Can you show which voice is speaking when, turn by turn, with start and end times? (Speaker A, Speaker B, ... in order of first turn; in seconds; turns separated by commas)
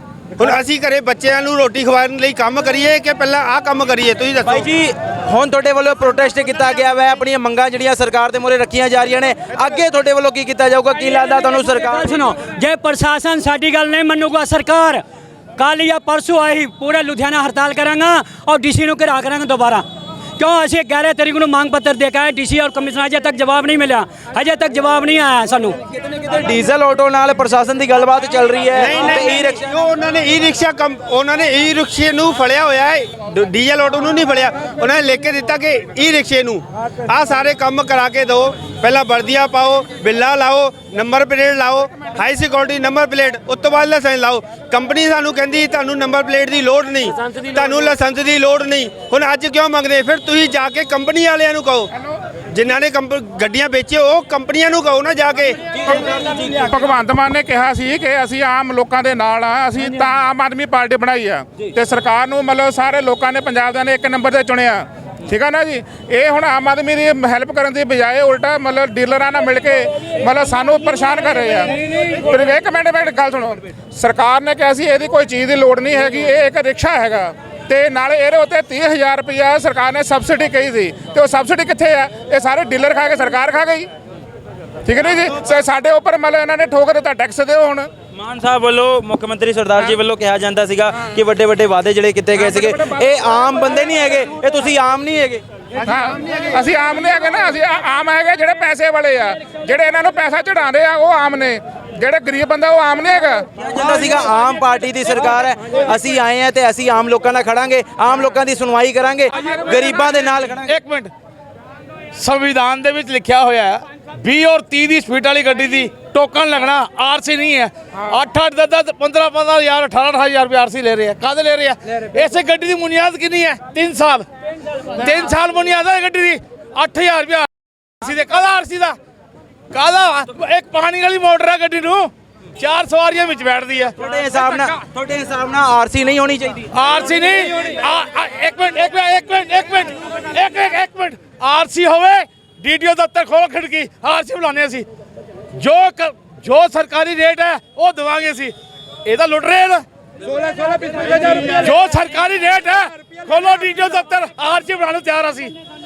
Speaker A: 0.4-4.6, Speaker B: 4.4-12.1, Speaker C: 11.8-15.0, Speaker C: 15.6-19.9, Speaker C: 20.4-25.8, Speaker B: 25.9-29.6, Speaker A: 28.8-51.9, Speaker A: 52.5-55.6, Speaker B: 55.8-56.6, Speaker D: 56.6-83.9, Speaker D: 84.9-87.9, Speaker B: 88.2-95.4, Speaker D: 95.9-103.5, Speaker B: 103.6-110.7, Speaker E: 110.6-111.1, Speaker E: 112.2-124.2, Speaker E: 125.0-127.5, Speaker E: 128.0-128.9, Speaker E: 129.7-132.1, Speaker E: 132.6-133.9, Speaker B: 134.0-136.7, Speaker E: 136.8-144.8, Speaker E: 145.6-148.5, Speaker E: 149.1-149.8, Speaker E: 151.1-155.5